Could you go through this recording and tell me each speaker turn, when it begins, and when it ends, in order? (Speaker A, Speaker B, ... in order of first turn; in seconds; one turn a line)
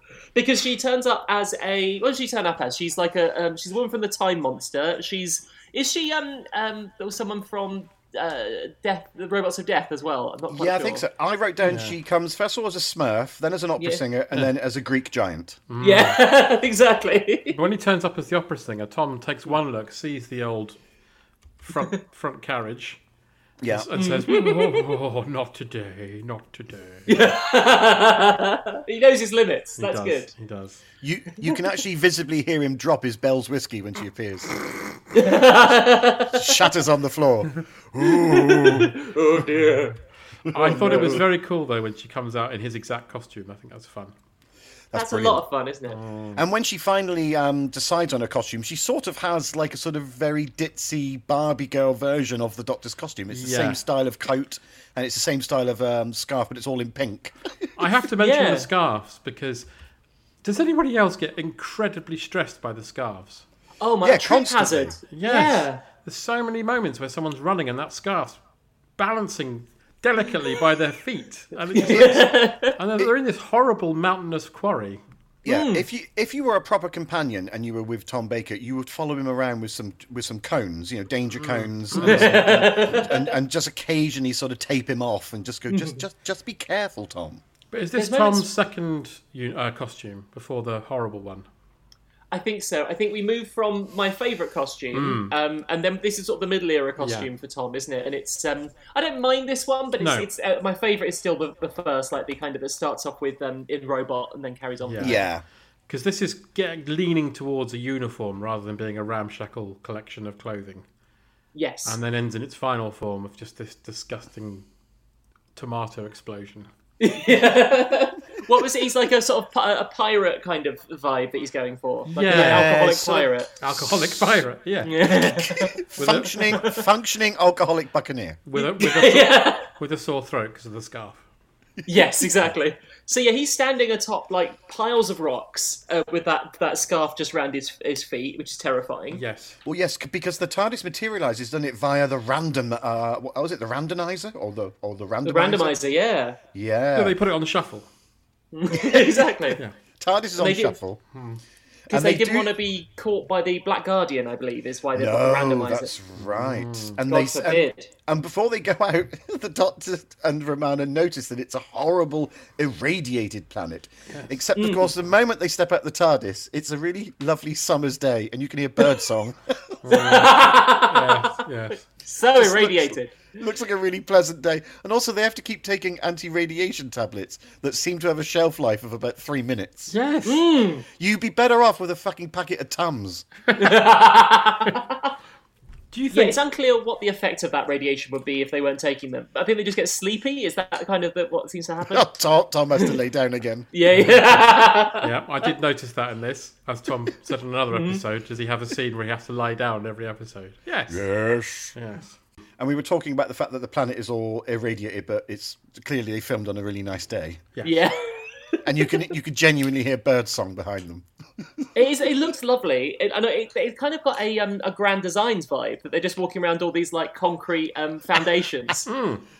Speaker A: 0.3-11.1
Speaker B: 10.5-15.6
Speaker C: 11.6-12.0
Speaker C: 15.7-16.2
Speaker A: 15.8-17.6
Speaker C: 17.5-20.8
Speaker C: 21.6-23.0
Speaker B: 23.6-23.9
Speaker C: 23.6-27.3
Speaker A: 23.9-24.9
Speaker A: 27.1-30.3
Speaker C: 29.8-30.8
Speaker B: 31.0-34.5
Speaker A: 35.1-36.6
Speaker B: 36.2-39.0
Speaker A: 38.0-40.0
Speaker B: 40.5-41.2
Speaker C: 40.5-44.1
Speaker A: 40.5-41.2
Speaker B: 44.9-45.4
Speaker A: 44.9-46.0
Speaker C: 45.9-46.4
Speaker B: 46.4-57.7
Speaker C: 53.3-53.8
Speaker C: 57.8-59.7
Speaker A: 58.2-58.7
Speaker C: 60.4-63.4
Speaker A: 63.8-65.8
Speaker B: 64.0-65.0
Speaker C: 65.1-68.4
Speaker C: 69.0-75.0
Speaker A: 71.7-72.8
Speaker B: 75.5-87.4
Speaker A: 75.5-75.8
Speaker C: 81.4-82.8
Speaker A: 82.0-83.3
Speaker A: 85.7-86.0
Speaker C: 87.7-91.5
Speaker A: 88.0-88.5
Speaker A: 92.3-105.2
Speaker C: 94.9-95.3
Speaker C: 97.0-97.3
Speaker C: 100.0-100.3
Speaker C: 104.8-105.2
Speaker B: 105.0-105.4
Speaker C: 105.9-110.8
Speaker A: 111.5-112.0
Speaker C: 111.8-114.7
Speaker C: 115.6-116.7
Speaker A: 117.0-123.5
Speaker C: 122.1-122.8
Speaker B: 122.3-124.4
Speaker C: 123.6-125.2
Speaker A: 124.8-125.8
Speaker B: 125.3-128.4
Speaker C: 126.0-126.6
Speaker A: 126.5-126.8
Speaker C: 128.5-131.2
Speaker A: 128.6-129.7
Speaker A: 131.9-139.2
Speaker C: 139.1-139.6
Speaker B: 139.7-145.8
Speaker A: 145.2-146.4
Speaker B: 146.5-147.2
Speaker C: 146.9-147.9
Speaker A: 148.5-149.6
Speaker B: 150.0-151.0
Speaker A: 150.4-150.8
Speaker C: 151.1-151.4
Speaker B: 151.9-152.5
Speaker A: 151.9-155.9
Speaker B: 154.9-169.8
Speaker C: 156.2-157.0
Speaker A: 157.1-157.9
Speaker A: 164.6-164.9
Speaker C: 169.8-171.8
Speaker A: 169.9-171.4
Speaker A: 172.0-173.2
Speaker B: 172.4-179.9
Speaker C: 179.9-180.4
Speaker A: 180.2-180.8
Speaker B: 181.0-183.3
Speaker A: 183.6-185.1
Speaker C: 185.9-186.4
Speaker A: 186.1-192.1
Speaker B: 191.9-193.7
Speaker A: 193.7-195.1
Speaker C: 195.0-201.0
Speaker A: 197.7-198.0
Speaker B: 200.9-201.8
Speaker C: 201.8-202.2
Speaker B: 202.6-207.4
Speaker C: 207.6-207.8
Speaker A: 207.6-209.1
Speaker B: 208.6-211.7
Speaker A: 211.8-218.9
Speaker C: 218.9-219.2